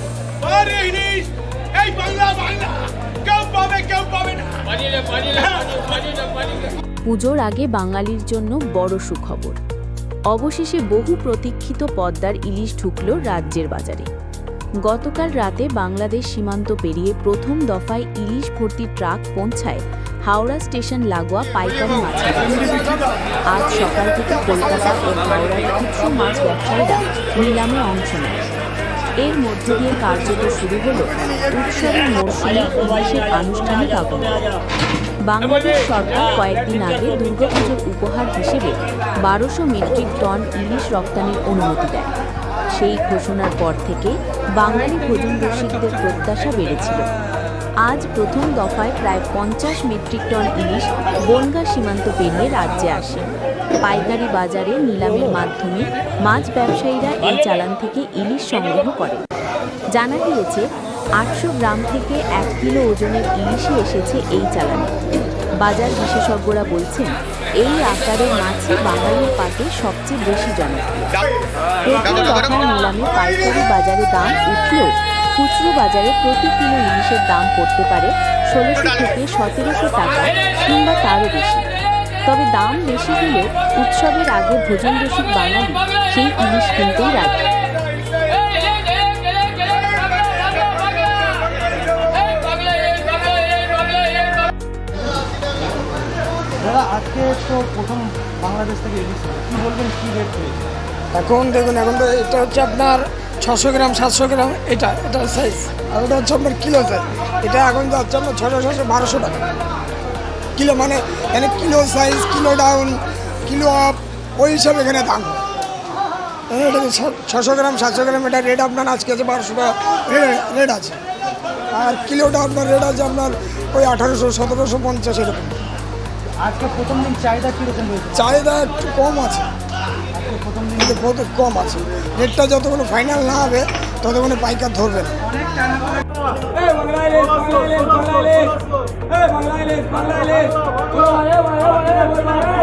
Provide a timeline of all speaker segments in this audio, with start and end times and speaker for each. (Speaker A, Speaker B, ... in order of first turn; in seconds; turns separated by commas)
Speaker A: 0.4-5.6, Speaker B: 7.1-9.6, Speaker B: 10.3-14.1, Speaker B: 14.8-23.0, Speaker B: 23.5-28.5, Speaker B: 29.2-34.5, Speaker B: 35.2-42.1, Speaker B: 42.7-47.1, Speaker B: 47.8-53.3, Speaker B: 53.8-59.2, Speaker B: 59.9-60.6, Speaker B: 61.2-64.9, Speaker B: 65.6-71.1, Speaker B: 71.8-81.6, Speaker B: 82.3-87.7, Speaker C: 96.6-100.6, Speaker D: 101.1-109.4, Speaker D: 110.5-115.4, Speaker D: 116.5-121.0, Speaker D: 121.7-125.6, Speaker C: 126.4-128.4, Speaker D: 128.1-129.5, Speaker C: 130.1-130.9, Speaker D: 130.8-135.2, Speaker C: 136.5-138.5, Speaker C: 139.1-141.1